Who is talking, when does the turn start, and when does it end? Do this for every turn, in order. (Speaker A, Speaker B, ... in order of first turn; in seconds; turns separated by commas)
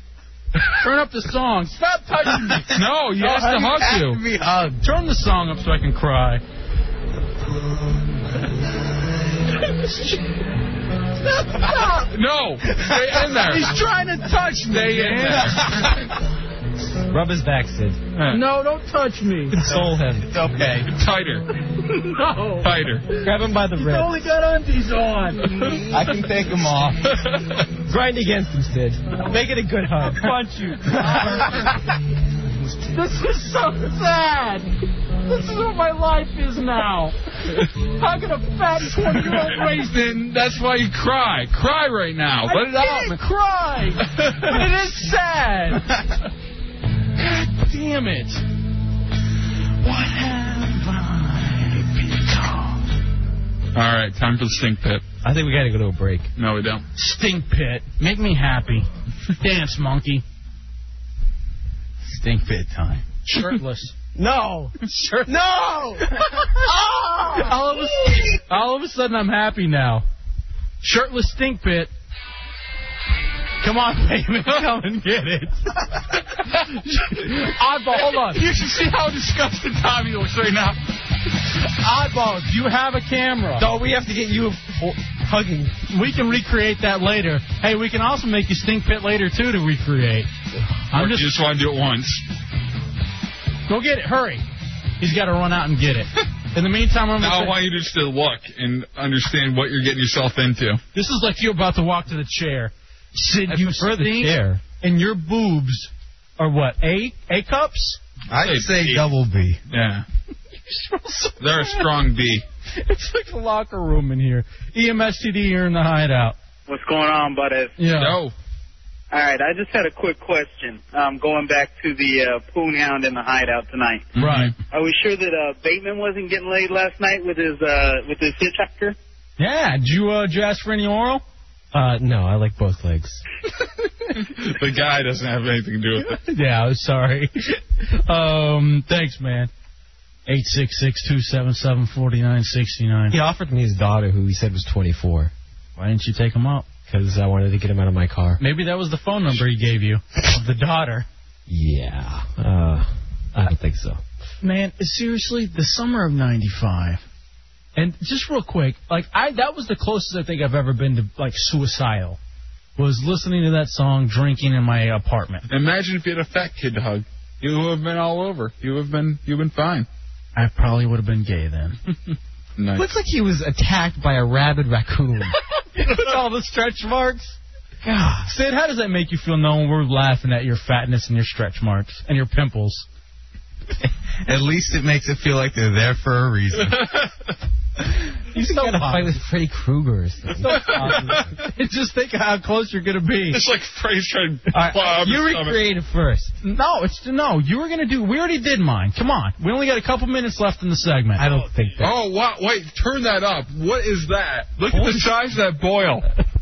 Speaker A: 0.7-3.8, Speaker B: 2.7-4.2, Speaker C: 4.3-4.7, Speaker A: 4.8-6.4, Speaker A: 9.7-10.2, Speaker A: 11.4-12.1, Speaker B: 11.9-13.8, Speaker A: 13.1-15.8, Speaker B: 14.7-15.8, Speaker D: 17.1-18.0, Speaker B: 18.2-18.4, Speaker A: 18.3-19.8, Speaker D: 19.5-20.8, Speaker C: 20.3-20.8, Speaker B: 20.9-21.5, Speaker A: 21.9-25.8, Speaker B: 22.6-23.1, Speaker D: 23.2-24.3, Speaker D: 25.9-27.0, Speaker C: 26.0-26.9, Speaker D: 27.9-30.3, Speaker A: 29.9-31.6, Speaker A: 32.9-37.2, Speaker A: 38.0-40.2, Speaker B: 38.9-43.2, Speaker A: 42.5-45.9, Speaker B: 44.1-44.6, Speaker A: 47.2-48.4, Speaker A: 49.8-52.9, Speaker B: 53.7-55.0, Speaker D: 55.2-56.3, Speaker B: 56.4-56.9, Speaker A: 57.0-60.2, Speaker A: 62.0-64.0, Speaker D: 64.2-64.7, Speaker A: 64.8-65.3, Speaker D: 65.3-68.2, Speaker A: 66.2-66.5, Speaker A: 67.4-70.0, Speaker A: 70.8-71.9, Speaker A: 73.6-78.5, Speaker B: 78.1-80.8, Speaker A: 81.8-83.7, Speaker D: 83.6-85.8, Speaker A: 85.9-90.3, Speaker A: 90.9-91.3, Speaker B: 90.9-92.2, Speaker A: 93.7-94.4, Speaker A: 95.0-97.5, Speaker B: 97.2-100.8, Speaker A: 100.9-108.0, Speaker D: 103.5-104.6, Speaker C: 108.3-109.6, Speaker B: 108.3-109.1, Speaker B: 109.7-110.0, Speaker A: 110.7-111.9, Speaker B: 111.4-112.5, Speaker A: 112.7-116.4, Speaker E: 116.7-117.8, Speaker A: 117.8-118.2, Speaker B: 117.8-118.3, Speaker E: 119.1-124.1, Speaker A: 124.2-124.5, Speaker B: 124.2-124.5, Speaker E: 124.7-129.0, Speaker A: 129.4-131.2, Speaker D: 131.7-133.2, Speaker B: 134.2-136.2, Speaker A: 136.0-139.5, Speaker A: 140.3-143.2, Speaker D: 143.1-145.3, Speaker A: 145.8-146.7, Speaker D: 146.9-148.4, Speaker A: 148.4-151.1, Speaker D: 151.5-154.0, Speaker A: 154.4-157.0, Speaker A: 157.8-162.2, Speaker A: 162.8-165.4, Speaker B: 165.5-169.9, Speaker A: 170.4-171.8, Speaker B: 172.6-172.9, Speaker D: 172.8-175.4, Speaker A: 175.7-177.4, Speaker D: 177.8-178.3, Speaker A: 178.2-182.9, Speaker C: 184.2-186.8, Speaker B: 186.7-187.3, Speaker D: 188.3-191.3, Speaker A: 188.3-189.1, Speaker A: 190.4-193.4, Speaker B: 190.7-191.4, Speaker B: 193.3-195.7, Speaker D: 194.5-196.4, Speaker A: 196.4-201.3, Speaker D: 201.2-201.9, Speaker B: 201.8-206.1, Speaker A: 204.7-205.0